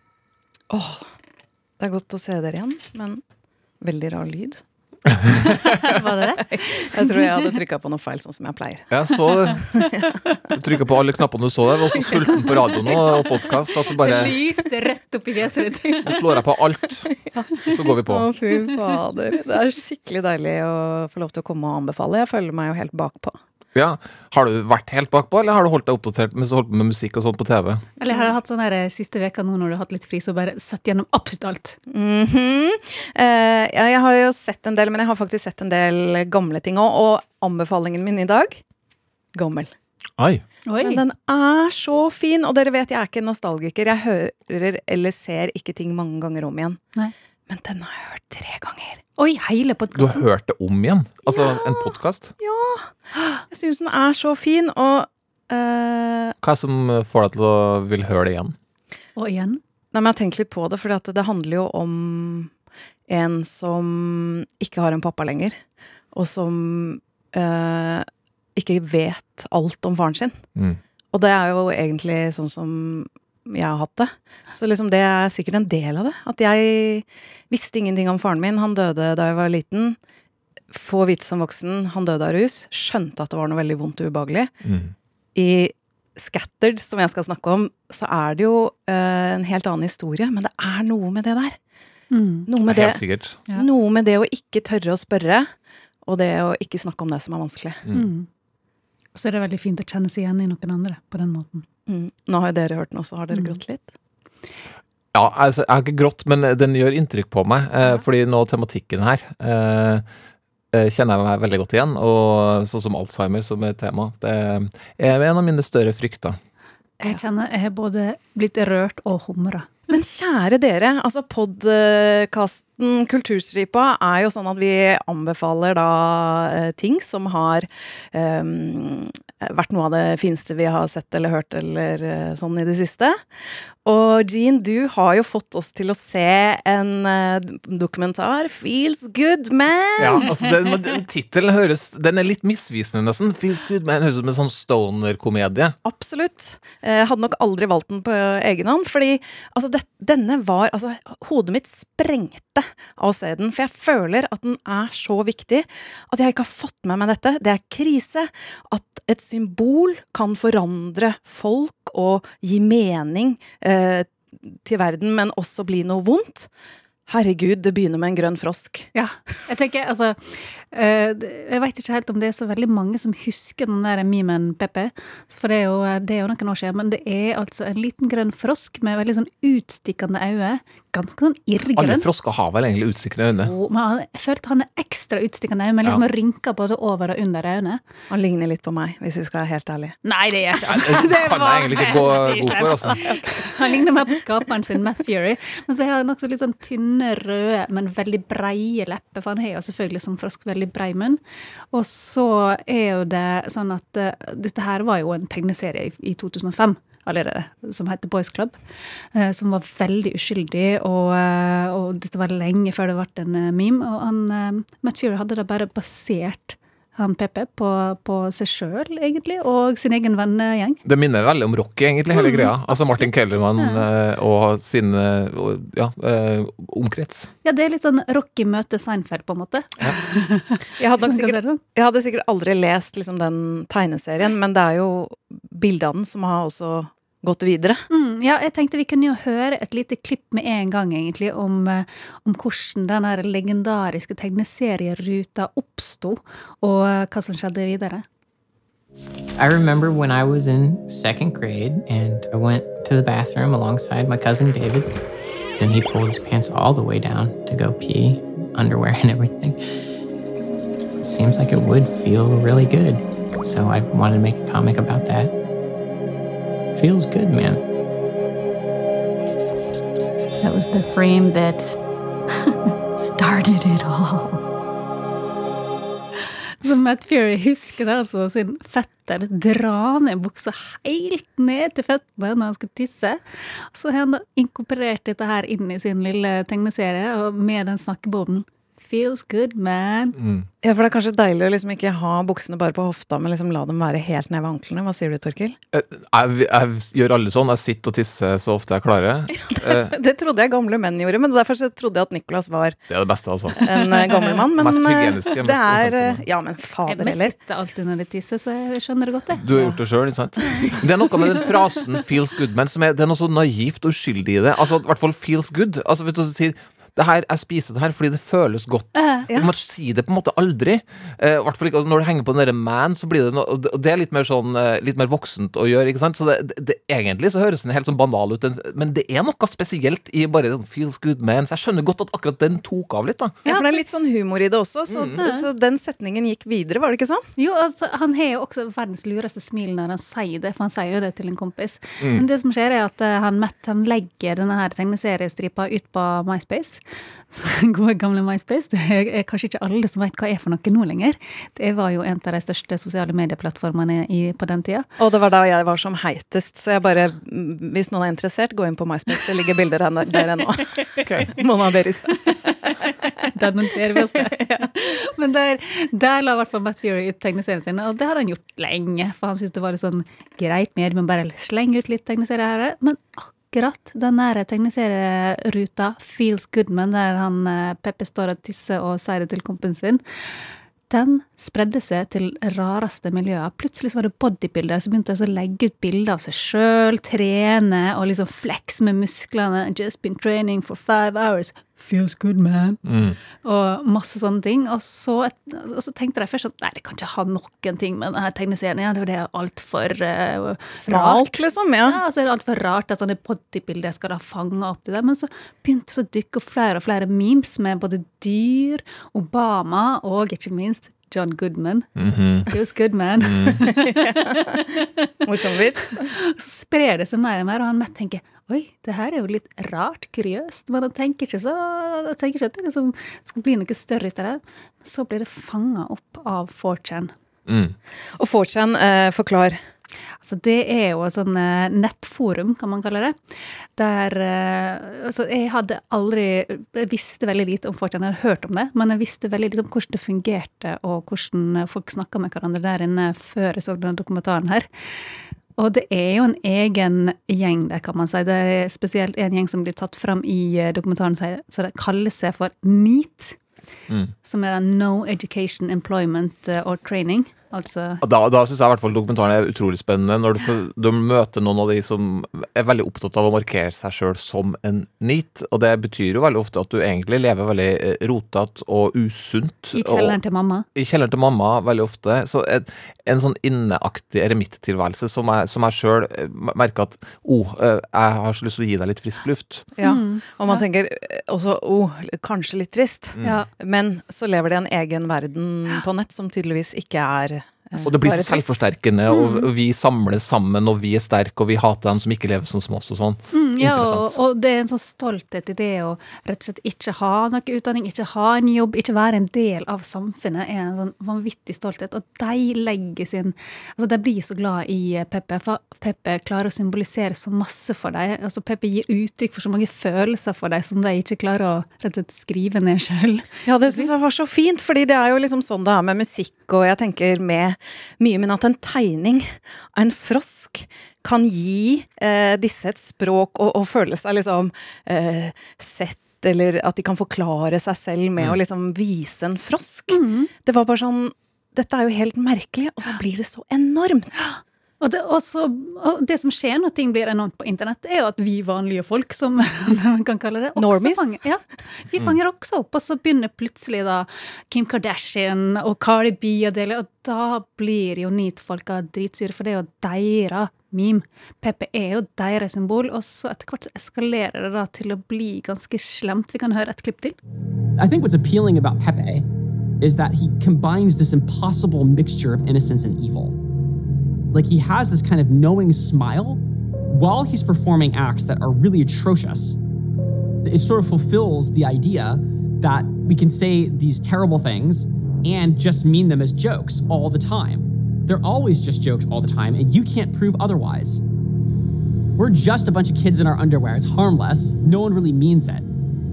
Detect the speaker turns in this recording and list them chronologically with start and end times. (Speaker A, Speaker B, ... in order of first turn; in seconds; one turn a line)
Speaker A: 0.7-1.1
Speaker A: 1.8-3.2
Speaker A: 3.8-4.6
Speaker B: 5.6-7.3
Speaker A: 5.9-8.9
Speaker C: 8.9-9.7
Speaker A: 9.5-10.2
Speaker C: 10.5-14.4
Speaker B: 12.0-13.0
Speaker B: 13.9-16.1
Speaker C: 16.0-17.1
Speaker A: 17.3-23.4
Speaker C: 17.6-18.3
Speaker C: 23.8-27.8
Speaker B: 28.0-31.8
Speaker A: 31.9-38.6
Speaker A: 39.4-39.7
Speaker B: 40.7-41.0
Speaker A: 40.8-46.8
Speaker A: 47.5-49.0
Speaker B: 49.2-50.2
Speaker C: 50.0-52.3
Speaker A: 51.3-51.7
Speaker A: 52.4-52.9
Speaker B: 53.2-53.4
Speaker A: 53.5-56.4
Speaker C: 56.4-58.5
Speaker B: 59.2-59.6
Speaker A: 59.9-62.5
Speaker A: 63.1-65.6
Speaker A: 66.1-70.4
Speaker A: 71.1-80.0
Speaker A: 80.7-84.5
Speaker C: 84.7-84.9
Speaker A: 85.3-91.6
Speaker B: 92.1-92.5
Speaker A: 92.5-95.5
Speaker C: 92.7-93.4
Speaker A: 96.1-97.8
Speaker B: 97.9-98.3
Speaker B: 99.2-101.7
Speaker A: 101.9-103.9
Speaker B: 103.3-103.6
Speaker C: 105.2-110.0
Speaker C: 110.7-116.4
Speaker B: 117.0-119.8
Speaker A: 119.9-133.2
Speaker A: 133.8-140.3
Speaker C: 140.0-145.8
Speaker A: 145.8-166.5
Speaker A: 167.1-168.9
Speaker B: 168.9-182.1
Speaker C: 181.8-183.5
Speaker B: 183.4-187.8
Speaker A: 188.1-190.0
Speaker B: 190.0-201.2
Speaker C: 190.7-193.0
Speaker A: 192.9-193.2
Speaker B: 201.7-208.6
Speaker B: 209.1-220.8
Speaker C: 220.8-227.3
Speaker B: 222.2-222.5
Speaker B: 223.6-223.8
Speaker B: 227.4-231.6
Speaker A: 230.8-237.8
Speaker B: 237.9-248.1
Speaker D: 249.4-254.9
Speaker D: 255.6-259.6
Speaker D: 261.0-265.3
Speaker D: 266.8-267.6
Speaker E: 270.4-271.6
Speaker E: 273.0-274.1
Speaker B: 276.6-290.2
Speaker C: 290.2-290.5
Speaker A: 290.6-295.6
Speaker C: 295.7-299.9
Speaker A: 299.5-302.8
Speaker C: 302.9-303.6
Speaker A: 303.6-307.3
Speaker C: 304.6-306.2
Speaker B: 306.9-309.4
Speaker C: 309.4-333.4
Speaker A: 309.5-309.8
Speaker B: 319.0-319.2
Speaker B: 333.4-333.8
Speaker A: 333.4-337.3
Speaker C: 334.9-335.2
Speaker B: 335.2-335.4
Speaker B: 337.4-354.9
Speaker C: 342.0-342.3
Speaker A: 355.0-363.3
Speaker B: 363.3-380.4
Speaker A: 363.9-364.7
Speaker B: 380.9-392.8
Speaker C: 392.9-393.2
Speaker B: 393.4-411.9
Speaker A: 400.8-402.0
Speaker C: 412.0-412.5
Speaker B: 412.5-415.1
Speaker C: 413.2-413.6
Speaker A: 413.9-414.6
Speaker A: 415.2-416.1
Speaker B: 415.9-427.1
Speaker C: 427.5-427.8
Speaker A: 428.2-429.6
Speaker B: 430.2-444.7
Speaker B: 445.6-453.4
Speaker C: 453.9-454.1
Speaker B: 454.2-458.0
Speaker C: 458.0-470.2
Speaker B: 469.8-470.7
Speaker C: 470.8-479.7
Speaker A: 479.8-488.5
Speaker B: 479.8-480.6
Speaker B: 483.2-483.5
Speaker C: 487.9-494.1
Speaker B: 489.1-489.5
Speaker B: 493.3-513.9
Speaker A: 513.5-534.1
Speaker B: 529.9-530.3
Speaker B: 534.2-557.2
Speaker A: 540.6-541.2
Speaker F: 557.8-559.3
Speaker F: 559.8-563.4
Speaker F: 564.3-569.6
Speaker F: 570.4-581.0
Speaker F: 582.2-585.7